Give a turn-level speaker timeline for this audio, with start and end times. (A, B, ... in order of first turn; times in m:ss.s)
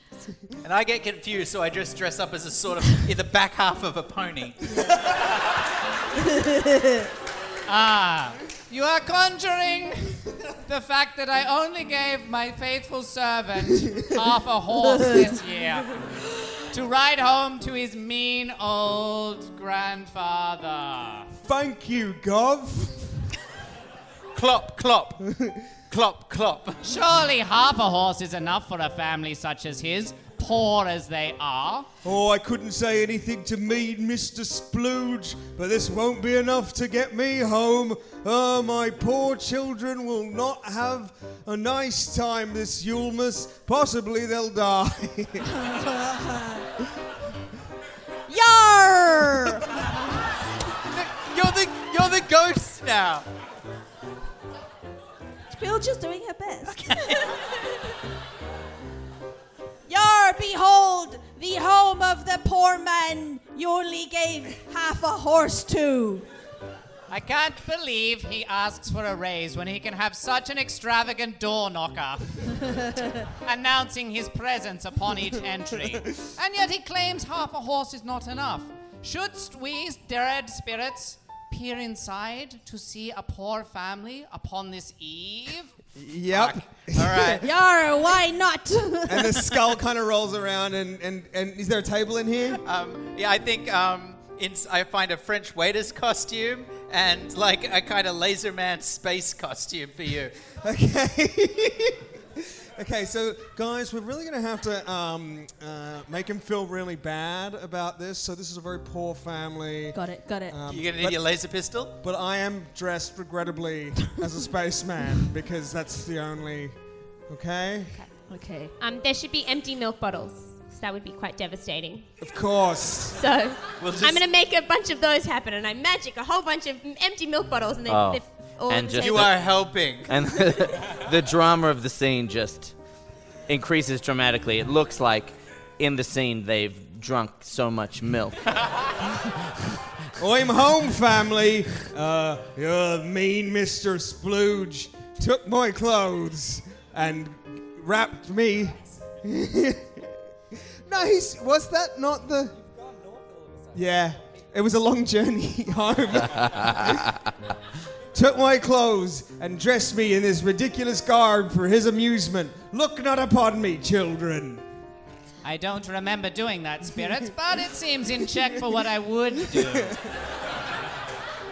0:00.6-0:04.6 A
0:06.4-0:06.9 B
0:07.7-0:16.0 C
0:16.7-0:21.3 C
0:21.4-0:23.1 D
0:24.3-0:25.2 A
0:25.2-0:25.6 D
0:25.9-0:26.8 A
0:26.8-0:31.9 C
0:32.0-0:45.6 D
0:45.5-0:46.7 B
0:48.3-0:49.9 B
0:50.9-0:53.3 A
0:55.5-0:57.3 B
0:59.9-1:06.2 B
1:07.1-1:12.6 C
1:13.4-1:25.7 C
1:26.0-1:27.5 D
1:26.3-1:27.4 A
1:27.4-1:29.5 B
1:29.1-1:32.6 D
1:32.6-1:40.4 A
1:40.6-1:51.3 D
1:49.9-1:50.6 B
1:50.7-1:52.0 A
1:52.0-1:56.8 D
1:57.3-1:58.0 D
1:58.3-1:58.7 B
1:58.8-2:02.1 E
2:02.2-2:03.2 D
2:03.1-2:09.3 E
2:03.8-2:04.2 A
2:07.9-2:09.5 F
2:08.9-2:10.1 A
2:10.0-2:12.8 F
2:13.5-2:18.4 F
2:20.2-2:30.2 D
2:30.9-2:32.6 D
2:33.7-2:37.1 D
2:38.1-2:44.6 D
2:45.4-2:50.0 C
2:49.4-2:49.9 D